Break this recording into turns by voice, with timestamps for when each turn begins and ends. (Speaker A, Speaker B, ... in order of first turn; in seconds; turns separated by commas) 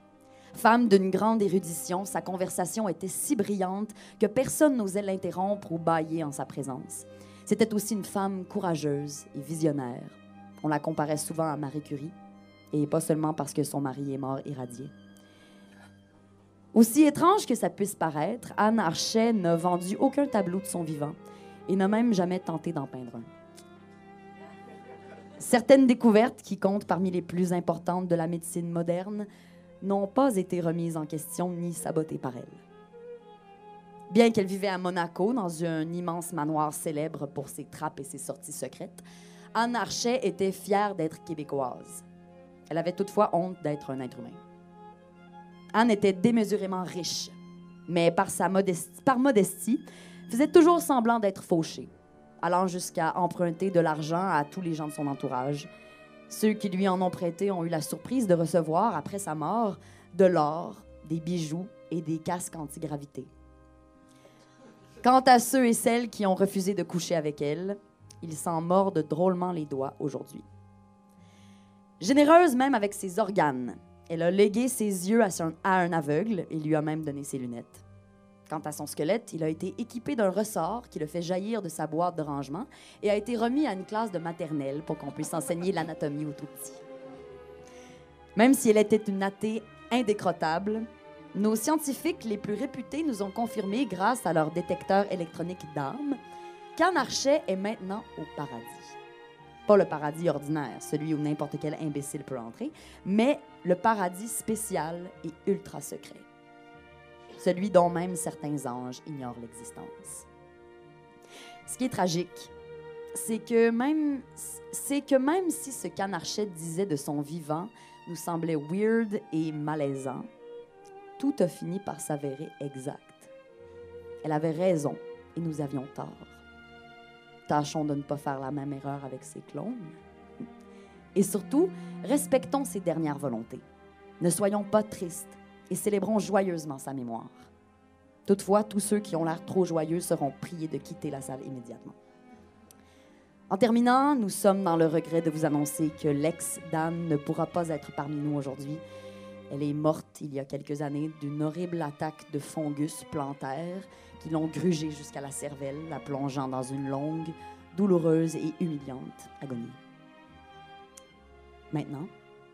Speaker A: 0.5-12.1, Speaker A: 12.7-14.9, Speaker A: 16.7-21.2, Speaker A: 21.7-23.3, Speaker A: 25.4-29.3, Speaker A: 29.8-32.6, Speaker A: 34.1-39.0, Speaker A: 39.5-42.0, Speaker A: 42.7-44.4, Speaker A: 45.7-47.3, Speaker A: 47.9-51.9, Speaker A: 52.4-55.7, Speaker A: 56.3-63.3, Speaker A: 65.0-70.5, Speaker A: 72.0-77.8, Speaker A: 78.5-86.8, Speaker A: 88.3-96.2, Speaker A: 96.8-98.9, Speaker A: 99.7-106.2, Speaker A: 107.4-110.2, Speaker A: 111.7-112.5, Speaker A: 113.1-120.3, Speaker A: 121.2-123.3, Speaker A: 124.2-126.4, Speaker A: 127.5-130.0, Speaker A: 131.1-133.6, Speaker A: 134.2-137.4, Speaker A: 138.2-141.9, Speaker A: 143.5-148.8, Speaker A: 149.5-159.8, Speaker A: 161.7-162.1